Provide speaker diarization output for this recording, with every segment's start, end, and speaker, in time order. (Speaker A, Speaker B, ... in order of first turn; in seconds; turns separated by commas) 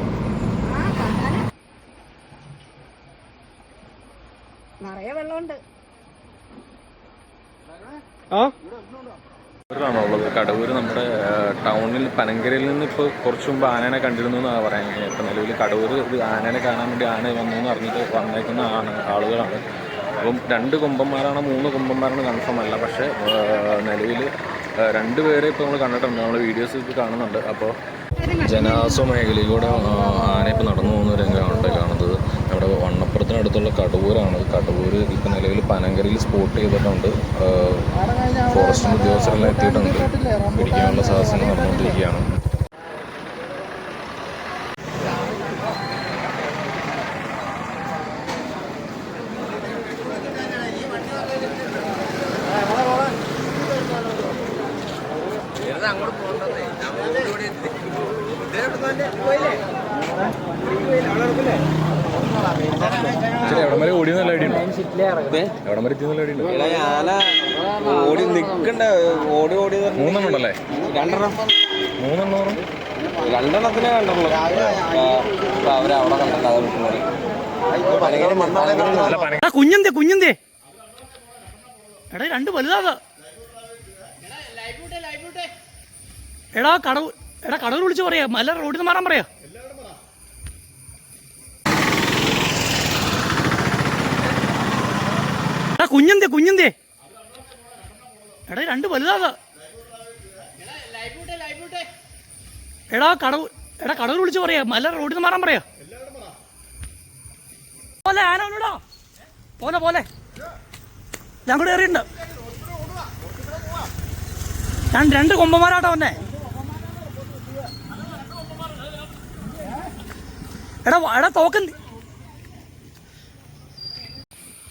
Speaker A: 0.7-1.4, Speaker A: 4.8-5.6, Speaker B: 9.7-19.6, Speaker B: 20.2-24.3, Speaker B: 24.8-27.7, Speaker A: 28.2-29.0, Speaker B: 28.4-37.9, Speaker B: 38.4-42.3, Speaker C: 55.8-57.3, Speaker C: 59.0-59.5, Speaker C: 60.9-61.4, Speaker B: 63.4-64.7, Speaker C: 64.8-65.5, Speaker B: 65.6-66.6, Speaker C: 66.5-71.5, Speaker B: 69.9-70.6, Speaker B: 72.0-72.6, Speaker C: 73.0-77.1, Speaker C: 77.7-79.2, Speaker B: 78.8-79.5, Speaker D: 79.4-80.4, Speaker D: 82.1-83.0, Speaker D: 86.5-89.3, Speaker D: 95.8-96.7, Speaker D: 98.5-99.3, Speaker D: 102.9-105.6, Speaker D: 108.0-108.8, Speaker D: 109.6-110.1, Speaker D: 111.5-112.1, Speaker D: 114.9-116.2, Speaker D: 120.8-121.8